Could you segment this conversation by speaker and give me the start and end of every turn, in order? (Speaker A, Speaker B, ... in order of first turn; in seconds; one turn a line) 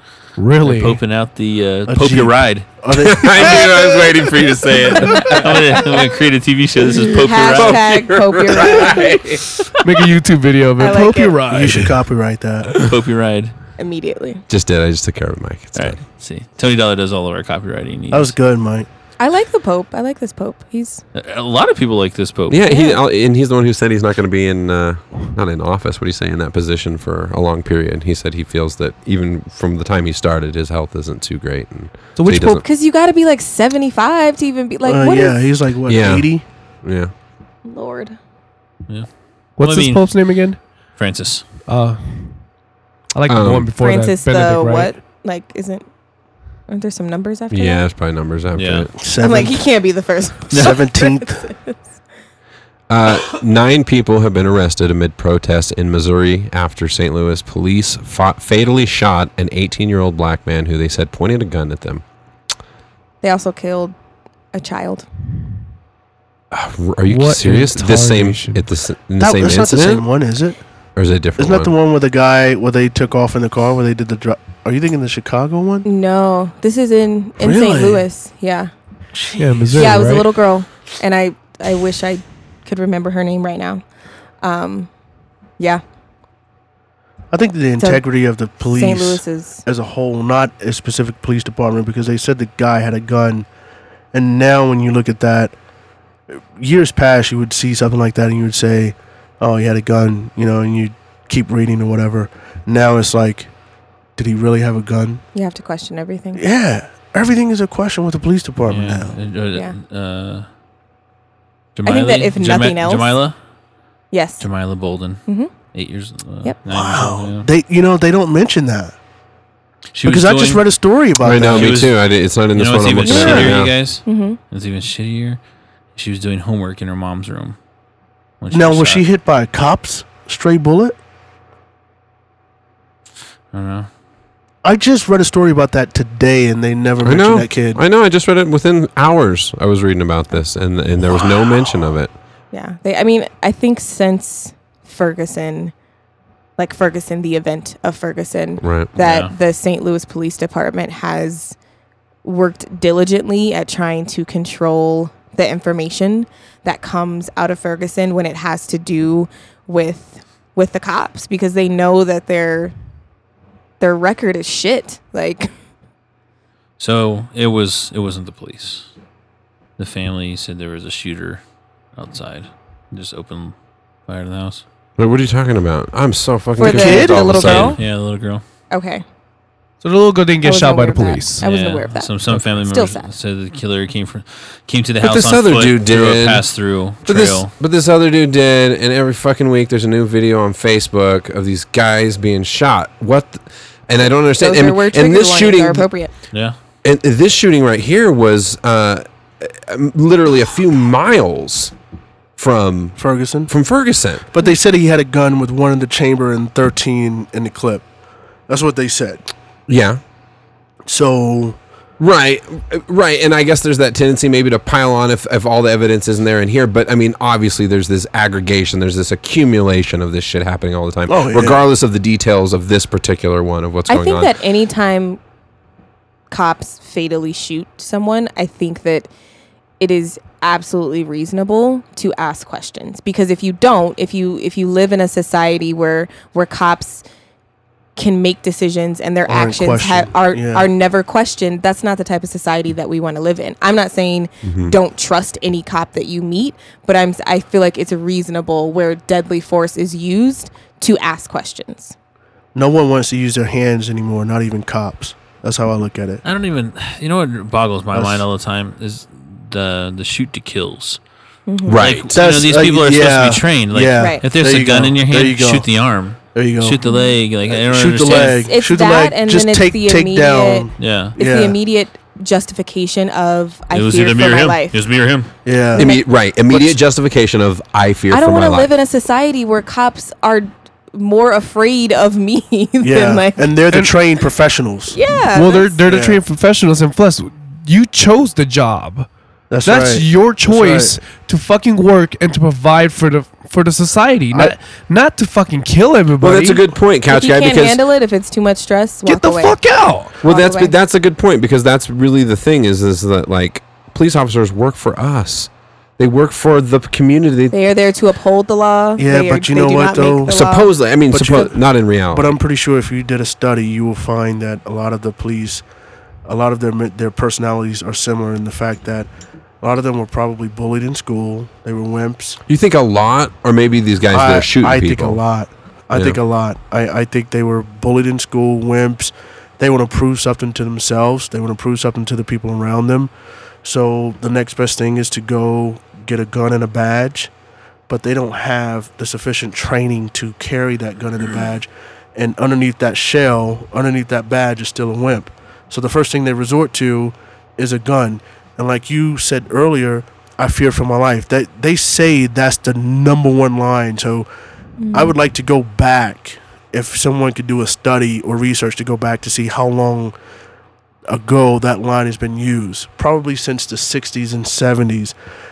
Speaker A: 0.4-1.0
Speaker B: 0.6-2.7
Speaker C: 1.9-3.8
Speaker D: 2.9-5.8
Speaker B: 5.2-7.9
Speaker E: 6.8-9.2
Speaker D: 7.4-9.7
Speaker A: 9.8-11.9
Speaker E: 10.8-11.4
Speaker C: 11.5-12.8
Speaker B: 12.7-13.5
Speaker E: 13.8-14.4
Speaker D: 14.5-16.0
Speaker B: 15.7-18.3
Speaker C: 18.1-18.9
Speaker E: 19.2-21.0
Speaker B: 21.1-22.6
Speaker D: 22.5-32.6
Speaker E: 22.7-23.0
Speaker A: 32.1-32.6
Speaker E: 32.4-35.4
Speaker C: 34.8-36.4
Speaker D: 35.9-36.3
Speaker D: 36.8-37.1
Speaker E: 37.6-38.1
Speaker B: 38.9-40.0
Speaker A: 39.6-40.6
Speaker B: 40.9-41.4
Speaker A: 41.7-42.4
Speaker A: 43.1-44.9
Speaker D: 43.2-43.7
Speaker E: 43.8-45.9
Speaker E: 46.7-47.9
Speaker D: 47.5-48.9
Speaker B: 48.5-48.9
Speaker C: 49.0-49.6
Speaker E: 49.2-51.8
Speaker B: 50.5-50.8
Speaker C: 50.5-51.5
Speaker D: 52.9-62.0
Speaker E: 63.2-63.9
Speaker E: 64.5-65.0
Speaker D: 66.5-70.1
Speaker A: 67.1-68.6
Speaker C: 69.2-70.6
Speaker D: 71.0-71.7
Speaker C: 71.4-75.8
Speaker E: 75.8-78.7
Speaker C: 77.4-78.0
Speaker C: 79.1-79.9
Speaker A: 79.4-80.3
Speaker E: 79.8-83.8
Speaker E: 84.4-84.9
Speaker C: 87.3-93.5
Speaker E: 87.8-88.1
Speaker E: 88.7-89.6
Speaker C: 94.1-95.5
Speaker C: 96.3-103.5
Speaker C: 104.2-105.2
Speaker E: 105.3-106.4
Speaker C: 106.3-109.1
Speaker B: 108.6-110.5
Speaker B: 111.8-113.3
Speaker E: 111.8-113.1
Speaker E: 114.1-114.4
Speaker B: 114.4-117.5
Speaker C: 116.7-118.9
Speaker B: 119.9-120.7
Speaker C: 120.0-121.8
Speaker D: 121.2-123.8
Speaker B: 121.4-122.0
Speaker B: 122.5-125.4
Speaker C: 123.0-123.5
Speaker E: 124.0-124.4
Speaker B: 125.9-127.6
Speaker B: 128.4-129.0
Speaker C: 128.5-130.9
Speaker B: 133.5-133.9
Speaker C: 134.6-137.8
Speaker D: 137.0-142.1
Speaker C: 141.1-141.8
Speaker E: 142.5-145.7
Speaker E: 146.6-151.6
Speaker D: 148.6-148.9
Speaker B: 148.9-149.3
Speaker E: 152.2-162.7
Speaker E: 163.8-165.5
Speaker B: 166.8-168.9
Speaker B: 169.8-171.4
Speaker B: 171.9-173.5
Speaker B: 174.1-174.6
Speaker D: 175.0-177.8
Speaker C: 176.6-177.3
Speaker E: 176.6-177.8
Speaker B: 177.2-178.4
Speaker E: 178.7-179.0
Speaker A: 179.8-181.4
Speaker E: 180.4-183.1
Speaker B: 181.4-187.5
Speaker D: 185.0-186.4
Speaker D: 187.0-195.9
Speaker E: 194.4-196.1
Speaker D: 196.8-201.7
Speaker D: 202.4-204.2
Speaker C: 203.0-203.5
Speaker C: 204.3-207.8
Speaker C: 208.5-209.2
Speaker D: 209.7-210.0
Speaker C: 210.8-211.6
Speaker D: 212.0-224.3
Speaker C: 221.1-221.6
Speaker E: 223.9-225.2
Speaker E: 226.3-229.1
Speaker E: 229.8-237.0
Speaker E: 237.9-251.9
Speaker C: 239.3-240.7
Speaker D: 244.4-244.7
Speaker C: 252.5-256.2
Speaker B: 256.2-261.0
Speaker C: 257.9-258.2
Speaker E: 261.5-261.8
Speaker D: 261.6-262.1
Speaker B: 261.7-268.4
Speaker C: 262.1-265.6
Speaker E: 264.0-264.2
Speaker C: 266.3-266.8
Speaker E: 266.8-267.2
Speaker C: 267.4-271.6
Speaker E: 268.1-274.8
Speaker B: 270.8-271.1
Speaker B: 273.7-275.3
Speaker C: 275.4-276.8
Speaker E: 275.7-276.0
Speaker D: 275.7-278.7
Speaker E: 278.1-283.5
Speaker C: 282.8-285.0
Speaker E: 284.9-285.8
Speaker A: 285.3-289.1
Speaker C: 285.9-286.2
Speaker C: 289.5-291.0
Speaker A: 289.6-296.6
Speaker D: 296.2-297.8
Speaker E: 297.1-299.6
Speaker A: 299.0-300.1
Speaker D: 300.2-307.5
Speaker E: 300.2-300.7
Speaker E: 307.5-310.8
Speaker C: 309.0-310.5
Speaker D: 310.3-312.3
Speaker C: 311.1-311.6
Speaker C: 312.1-315.6
Speaker C: 316.2-319.1
Speaker C: 319.6-322.4
Speaker D: 322.5-325.2
Speaker C: 324.1-333.1
Speaker D: 325.9-326.2
Speaker C: 333.6-337.3
Speaker C: 337.9-354.2
Speaker E: 354.8-355.1
Speaker C: 354.9-360.1
Speaker C: 361.1-365.1